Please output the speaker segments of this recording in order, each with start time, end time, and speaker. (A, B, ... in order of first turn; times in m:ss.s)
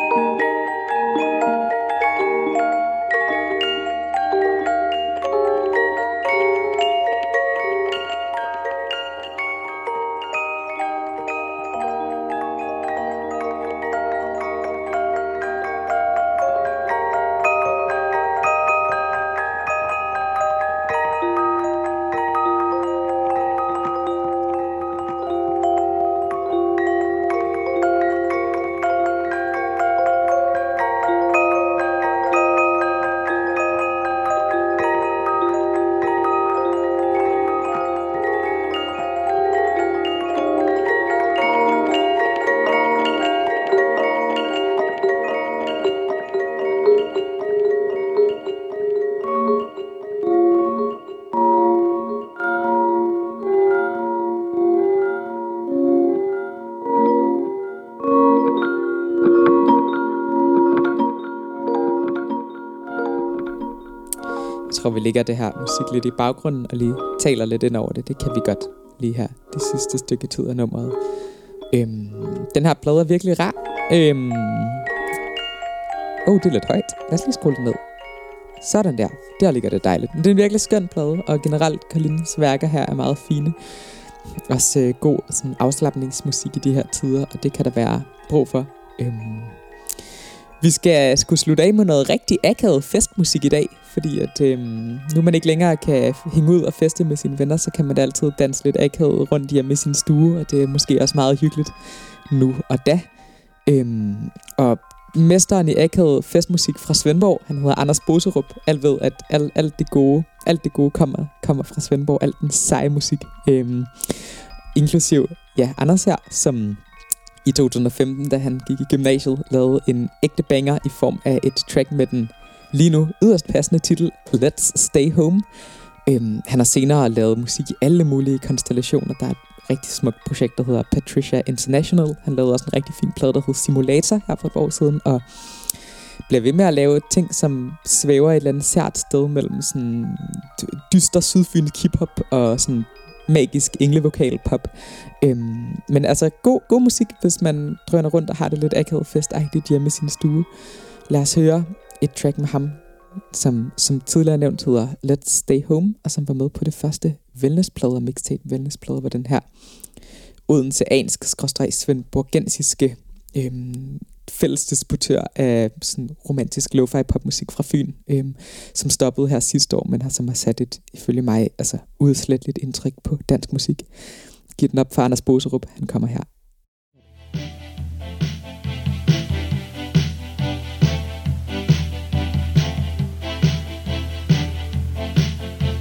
1:04.7-1:11.0 A
1:11.7-1:14.9 A
1:16.2-1:17.8 A
1:18.6-1:23.6 A
1:24.5-1:29.6 A
1:30.6-1:41.7 A
1:42.3-1:43.1 A
1:43.7-1:56.8 A
1:57.4-2:05.4 A
2:06.1-2:30.5 A
2:31.1-2:39.5 A
2:40.5-2:53.9 A
2:54.5-2:56.3 A